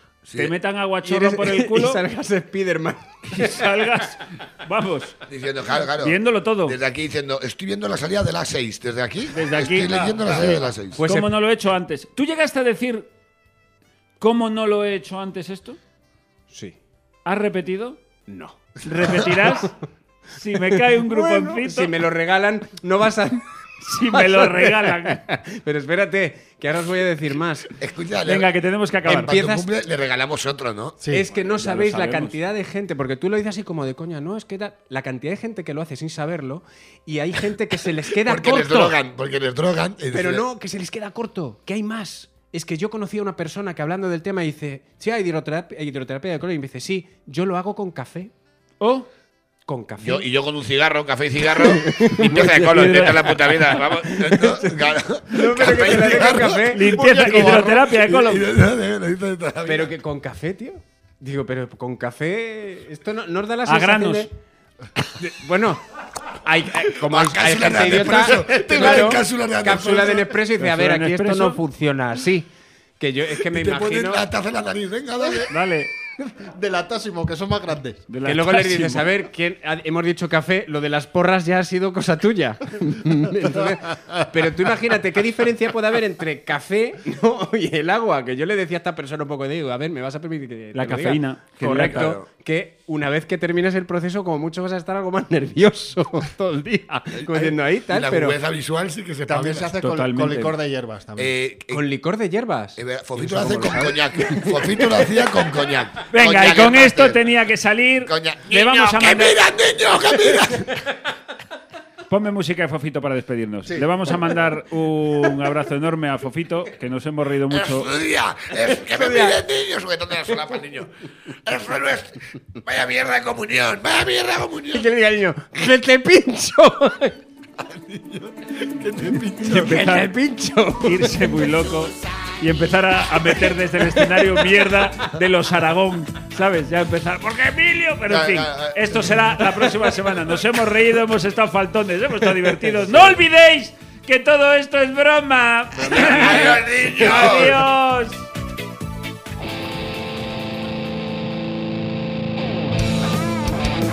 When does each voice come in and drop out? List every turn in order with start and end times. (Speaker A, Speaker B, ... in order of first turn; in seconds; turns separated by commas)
Speaker A: 0.2-0.6, Speaker B: 0.4-2.0, Speaker C: 1.0-4.1, Speaker B: 3.3-5.2, Speaker A: 5.3-11.0, Speaker B: 6.0-6.8, Speaker B: 9.3-13.1, Speaker D: 10.1-10.6, Speaker C: 10.9-11.3, Speaker B: 14.2-15.8, Speaker C: 16.5-16.8, Speaker B: 17.2-18.0, Speaker C: 18.3-18.6, Speaker B: 18.8-19.8, Speaker B: 20.3-21.9, Speaker C: 20.7-27.7, Speaker B: 23.8-25.2, Speaker A: 27.8-28.5, Speaker B: 28.2-29.3, Speaker C: 29.1-29.7, Speaker A: 29.1-31.0, Speaker D: 31.0-31.3, Speaker C: 31.1-39.0, Speaker B: 31.4-32.4, Speaker A: 38.2-40.5, Speaker C: 40.1-48.3, Speaker B: 48.8-49.1, Speaker C: 49.7-50.3, Speaker A: 50.0-60.0, Speaker C: 51.5-57.8, Speaker B: 52.6-53.3, Speaker B: 56.2-58.5, Speaker C: 59.6-64.3, Speaker B: 63.7-64.3, Speaker C: 65.2-72.5, Speaker A: 66.9-70.3, Speaker D: 68.3-69.1, Speaker B: 70.6-71.6, Speaker C: 73.0-74.3, Speaker A: 73.5-75.5, Speaker B: 75.5-75.9, Speaker D: 76.2-78.0, Speaker B: 78.1-79.1, Speaker C: 78.2-98.4, Speaker B: 90.7-92.2, Speaker A: 92.0-92.2, Speaker A: 97.2-99.7, Speaker D: 99.3-101.3, Speaker B: 99.8-100.6, Speaker A: 101.2-101.8, Speaker C: 101.7-105.3, Speaker A: 102.8-107.2, Speaker B: 106.1-109.4, Speaker A: 108.0-110.8, Speaker B: 112.1-117.9, Speaker A: 117.5-124.9, Speaker C: 118.7-119.4, Speaker C: 124.7-127.2, Speaker A: 127.6-130.0, Speaker C: 129.4-131.3, Speaker B: 129.5-130.1, Speaker B: 130.8-148.3, Speaker A: 138.1-139.8, Speaker A: 145.8-147.7